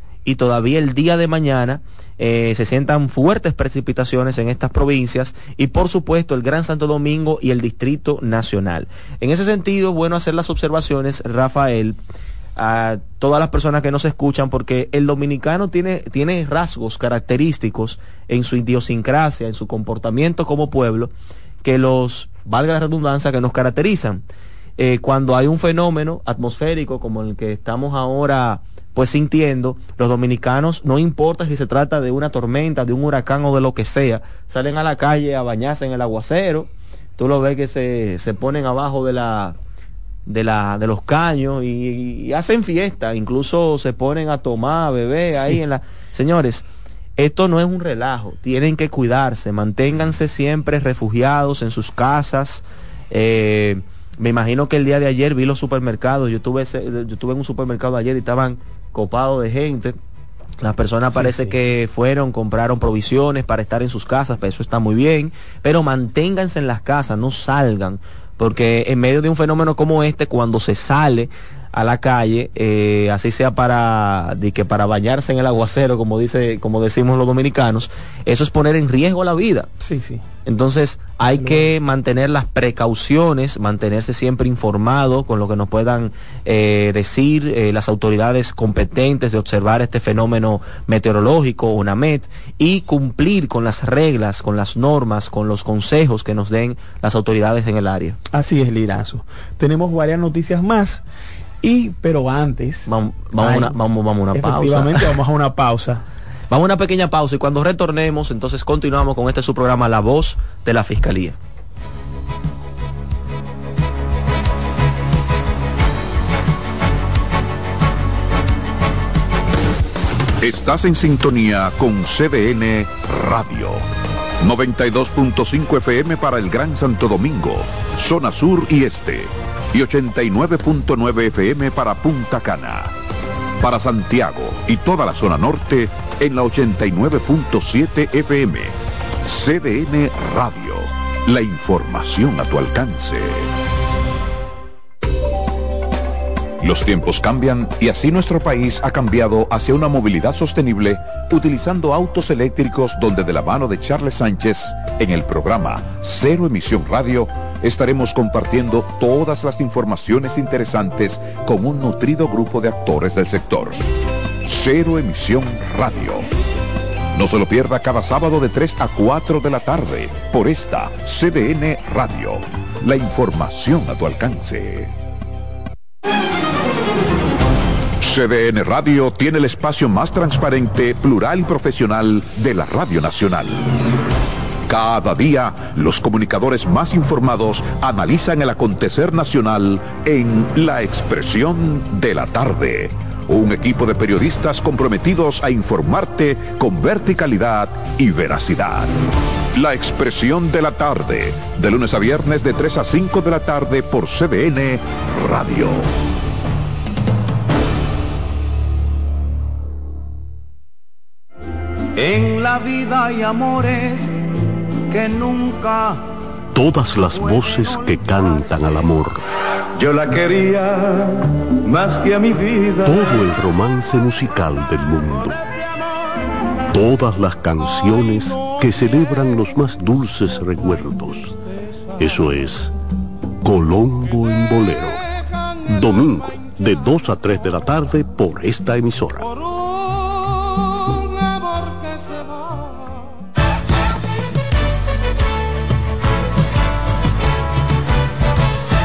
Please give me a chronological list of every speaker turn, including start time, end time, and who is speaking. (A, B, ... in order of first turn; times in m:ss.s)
0:00.2-0:12.0 A
0:12.6-0:21.1 A
0:21.6-0:24.2 A
0:24.8-0:39.6 A
0:40.3-0:46.6 A
0:47.2-1:00.0 A
1:00.6-1:19.7 A
1:01.1-1:01.5 B
1:19.8-1:20.2 B
1:20.4-1:38.2 A
1:21.4-1:21.7 B
1:38.3-1:41.0 B
1:41.6-1:43.8 B
1:42.8-1:45.1 A
1:44.3-1:46.0 B
1:46.5-1:51.4 A
2:00.4-2:03.8 C
2:04.4-2:12.9 C
2:13.6-2:23.5 C
2:26.6-2:43.8 C
2:44.4-2:46.2 C
2:47.1-2:54.9 C
2:58.0-3:03.8 C
3:04.7-3:18.9 C
3:19.5-3:25.9 C
3:32.0-3:34.3 D
3:34.9-3:36.1 D
3:36.5-3:39.2 E
3:37.1-3:38.7 D
3:39.8-3:43.0 D
3:42.8-3:45.4 E
3:46.7-3:51.4 E
3:52.0-3:52.7 E
3:53.4-3:55.0 E
3:55.7-3:59.3 E